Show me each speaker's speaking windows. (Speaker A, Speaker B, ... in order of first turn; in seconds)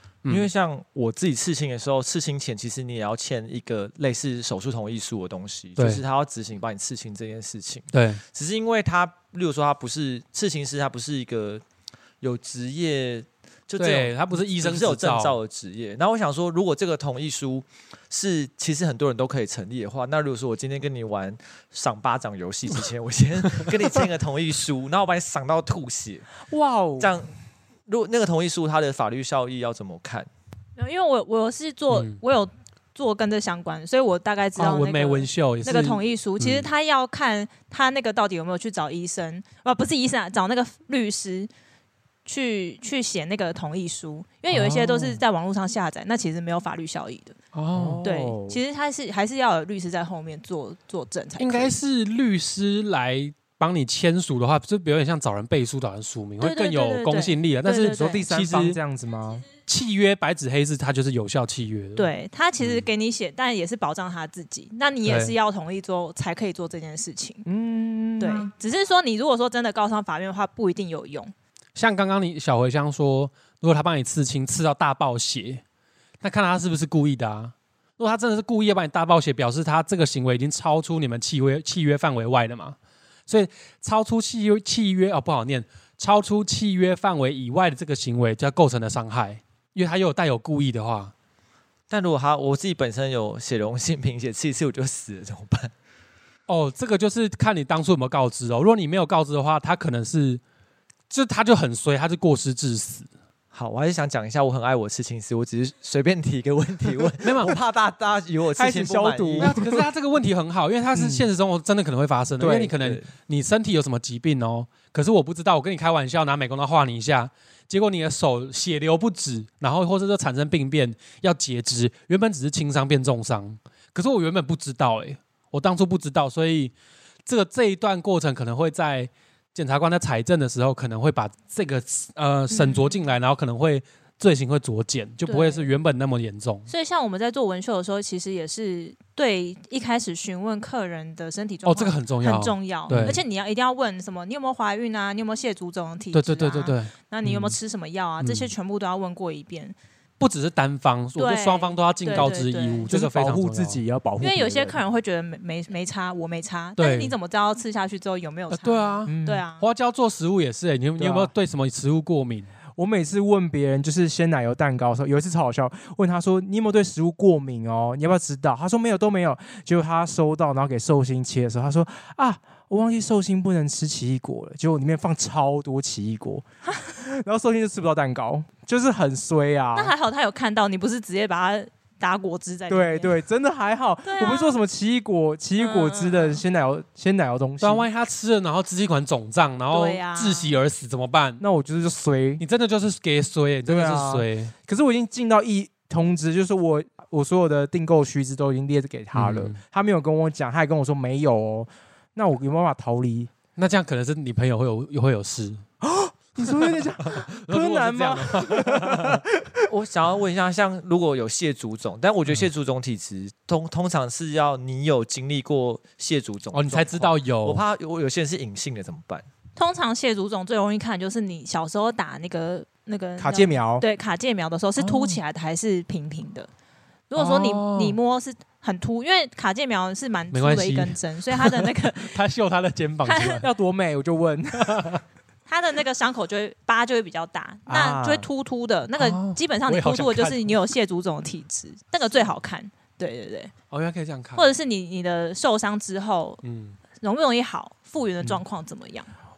Speaker A: 0.3-11.6, 12.2-26.3, 27.0-27.3, 27.9-30.3, 91.9-95.7, 103.5-109.5, 112.8-113.1, 209.7-219.3
Speaker B: 5.8-6.0, 7.9-8.2, 13.8-15.4, 31.9-32.2, 34.6-36.7, 47.5-48.0, 51.4-58.8, 59.7-62.1, 65.0-65.3, 71.8-75.6, 76.2-82.8, 83.3-91.1, 96.5-100.4, 101.1-103.1, 107.2-107.6, 109.4-126.7, 127.3-136.7, 141.7-143.2, 146.1-147.6, 148.2-148.5, 150.2-153.8, 156.8-157.2, 158.5-162.5, 187.6-191.4, 192.4-194.5, 199.1-199.6, 203.6-205.6, 206.4-209.2, 216.5-217.6, 224.8-225.2, 227.2-228.0, 230.3-233.5, 234.6-235.0, 239.0-240.6, 243.7-244.5, 246.4-246.8
Speaker C: 26.5-27.1, 44.5-45.2, 47.7-48.6, 57.8-59.5, 67.5-68.5, 108.6-109.9, 110.9-111.3, 112.4-112.8, 152.9-154.8, 159.1-159.4, 161.0-161.3, 162.8-176.4, 176.9-179.9, 182.7-187.9, 191.4-192.4, 193.7-203.3, 205.8-209.7, 223.2-223.8, 233.4-235.0, 237.7-238.3
Speaker D: 30.8-41.5, 42.3-47.4, 48.0-51.8, 56.4-58.2, 62.0-67.4, 68.2-71.3, 132.5-132.9, 135.3-135.7, 136.7-149.8, 151.2-152.8, 154.2-159.6, 179.7-183.2, 184.1-184.6, 185.6-186.4, 189.7-190.6, 219.6-226.5, 227.1-232.2, 233.1-233.4, 235.5-243.5, 244.4-246.4, 247.0-249.1